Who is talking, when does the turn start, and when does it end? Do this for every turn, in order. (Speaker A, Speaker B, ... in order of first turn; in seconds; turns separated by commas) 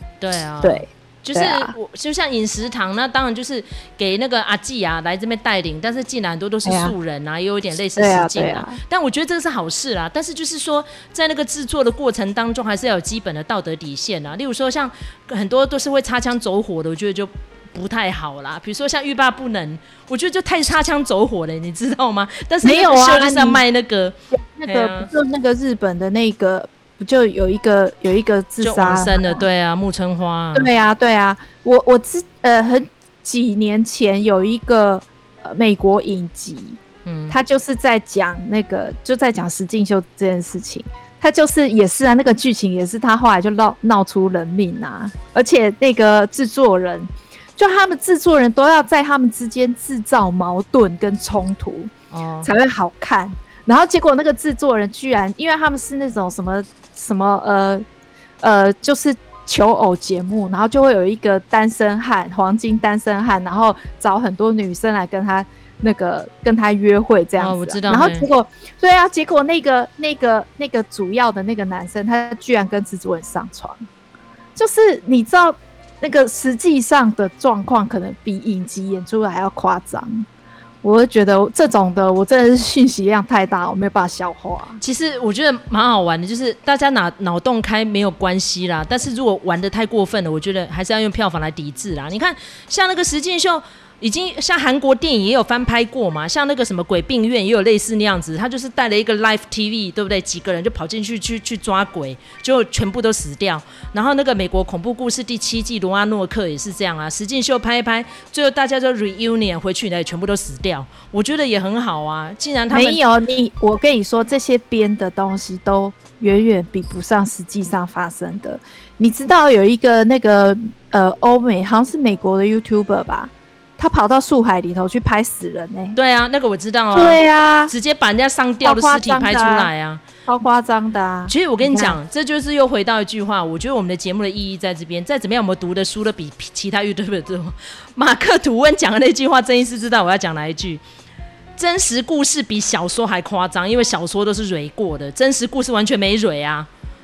Speaker A: 0.2-25.1, Speaker B: 0.6-1.7, Speaker B: 6.6-6.9, Speaker B: 8.0-8.8, Speaker B: 22.6-23.6, Speaker B: 24.3-29.4, Speaker A: 28.6-30.7, Speaker B: 30.5-36.8, Speaker A: 37.0-37.4, Speaker B: 37.3-51.9, Speaker A: 52.1-52.5, Speaker B: 52.4-57.8, Speaker B: 58.4-73.8, Speaker A: 67.4-68.3, Speaker B: 74.5-80.2, Speaker B: 80.8-84.8, Speaker A: 84.8-113.0, Speaker B: 112.7-126.0, Speaker A: 125.9-130.0, Speaker B: 126.9-127.7, Speaker B: 128.6-129.7, Speaker B: 130.2-132.0, Speaker A: 131.3-140.8, Speaker A: 141.6-146.7